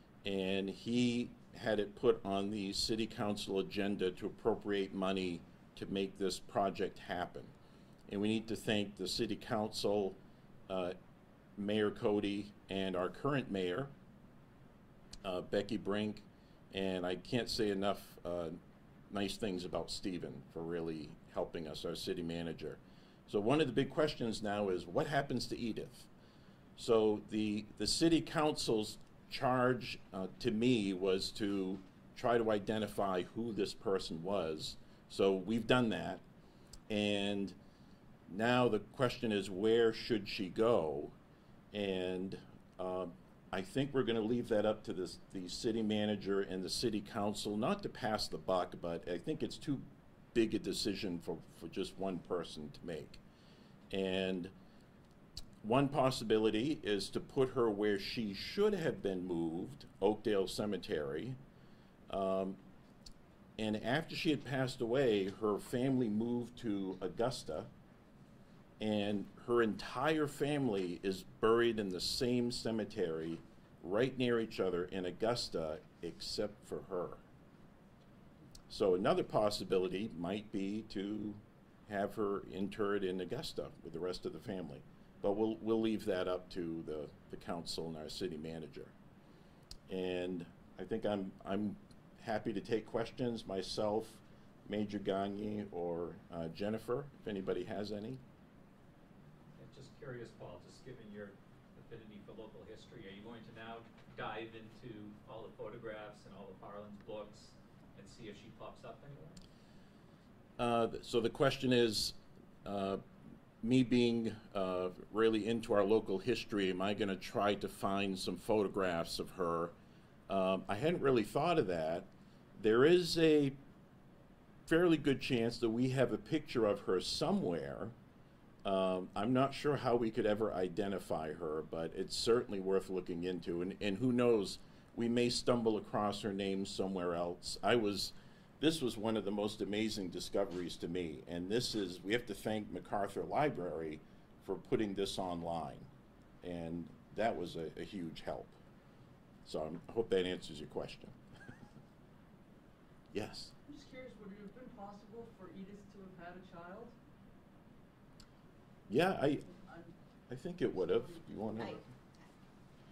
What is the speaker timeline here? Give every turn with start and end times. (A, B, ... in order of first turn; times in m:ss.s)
0:00.2-0:07.5 A
0:08.1-0:11.0 A
0:11.6-0:13.9 A
0:15.2-0:18.6 A
0:19.1-0:26.1 A
0:26.8-0:36.2 A
0:36.9-0:37.6 A
0:38.3-0:41.2 A
0:41.7-0:53.2 A
0:53.9-0:54.5 A
0:55.6-1:01.4 A
1:02.1-1:02.6 A
1:03.6-1:07.7 A
1:08.8-1:17.2 A
1:18.7-1:29.0 A
1:29.9-1:38.2 A
1:39.6-1:49.4 B
1:50.6-1:53.0 A
1:53.6-1:59.8 A
2:00.3-2:03.6 A
2:04.6-2:08.0 A
2:08.6-2:25.9 A
2:26.4-2:28.6 A
2:29.4-2:31.2 A
2:33.1-2:33.5 A
2:33.7-2:37.0 C
2:38.9-2:39.6 A
2:39.6-2:39.9 C
2:40.3-2:41.9 A